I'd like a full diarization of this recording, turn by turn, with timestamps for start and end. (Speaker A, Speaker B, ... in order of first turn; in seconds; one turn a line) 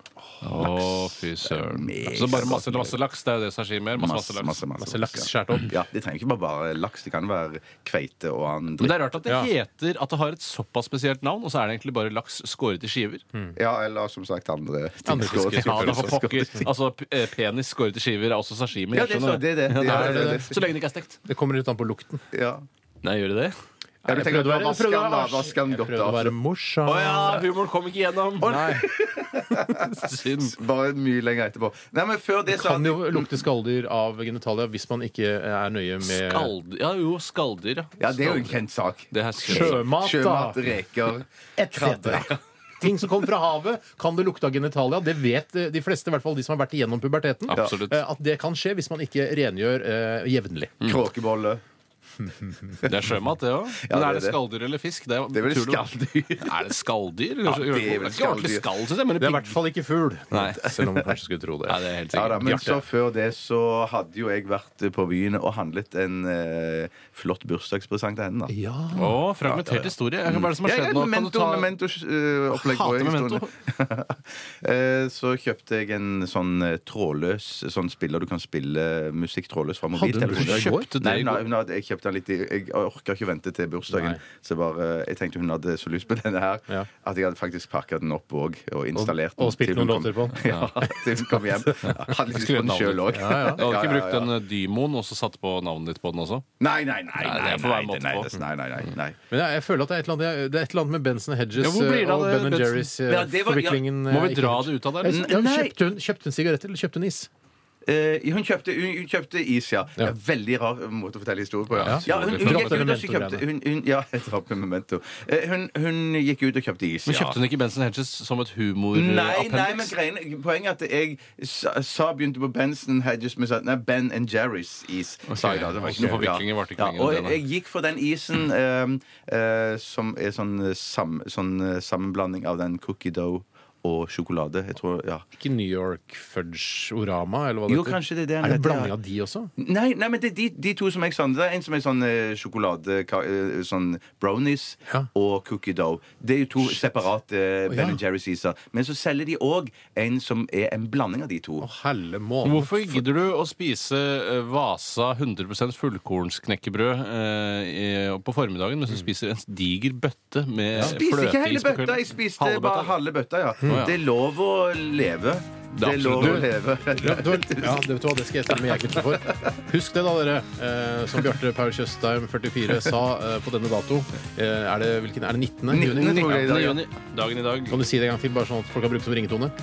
Speaker A: 0.3-1.0
Speaker B: 0.4-4.6
Speaker C: 1.6-3.0
Speaker C: 4.0-9.0
Speaker A: 4.8-5.8
Speaker B: 8.8-13.2
Speaker A: 9.3-9.5
Speaker C: 13.6-16.7
Speaker A: 15.1-16.6
Speaker B: 15.2-21.2
Speaker C: 18.9-20.6
Speaker A: 19.8-20.5
Speaker A: 21.3-22.2
Speaker C: 22.3-22.7
Speaker B: 23.0-23.6
Speaker A: 24.1-27.5
Speaker C: 24.1-26.4
Speaker C: 26.9-27.4
Speaker B: 26.9-28.6
Speaker C: 28.4-33.4
Speaker A: 28.4-29.0
Speaker B: 29.9-30.6
Speaker A: 32.5-36.5
Speaker B: 36.0-38.6
Speaker C: 38.0-42.4
Speaker B: 39.1-39.9
Speaker A: 39.4-40.6
Speaker A: 41.6-50.8
Speaker B: 47.5-48.0
Speaker C: 50.8-51.6
Speaker A: 52.2-52.8
Speaker B: 52.8-59.6
Speaker C: 53.8-54.4
Speaker C: 55.3-56.6
Speaker C: 57.5-58.7
Speaker A: 59.2-61.8
Speaker B: 60.3-60.7
Speaker C: 60.7-61.1
Speaker B: 61.7-62.7
Speaker C: 62.1-68.5
Speaker A: 62.4-62.8
Speaker A: 68.5-69.2
Speaker B: 68.9-71.7
Speaker C: 69.4-94.3
Speaker B: 72.5-73.5
Speaker A: 79.9-80.9
Speaker B: 80.2-81.4
Speaker A: 83.9-84.2
Speaker A: 89.0-91.8
Speaker B: 90.5-90.8
Speaker B: 92.3-96.5
Speaker A: 93.1-93.7
Speaker C: 96.6-99.2
Speaker B: 97.2-98.3
Speaker A: 99.3-107.3
Speaker B: 101.6-102.9
Speaker C: 103.1-103.8
Speaker B: 104.1-105.2
Speaker C: 105.0-105.8
Speaker C: 107.9-117.4
Speaker B: 111.7-112.9
Speaker A: 111.8-113.4
Speaker B: 117.1-119.9
Speaker C: 118.9-135.2
Speaker B: 125.3-127.4
Speaker A: 125.8-126.3
Speaker A: 135.4-139.5
Speaker C: 137.7-138.9
Speaker C: 139.6-151.7
Speaker A: 147.7-148.0
Speaker A: 151.6-153.0
Speaker B: 152.4-163.0
Speaker C: 160.8-167.8
Speaker A: 163.6-163.9
Speaker B: 163.7-163.9
Speaker B: 165.8-166.5
Speaker A: 166.2-176.6
Speaker C: 168.7-169.0
Speaker C: 175.7-176.8
Speaker B: 175.9-177.8
Speaker A: 177.7-179.5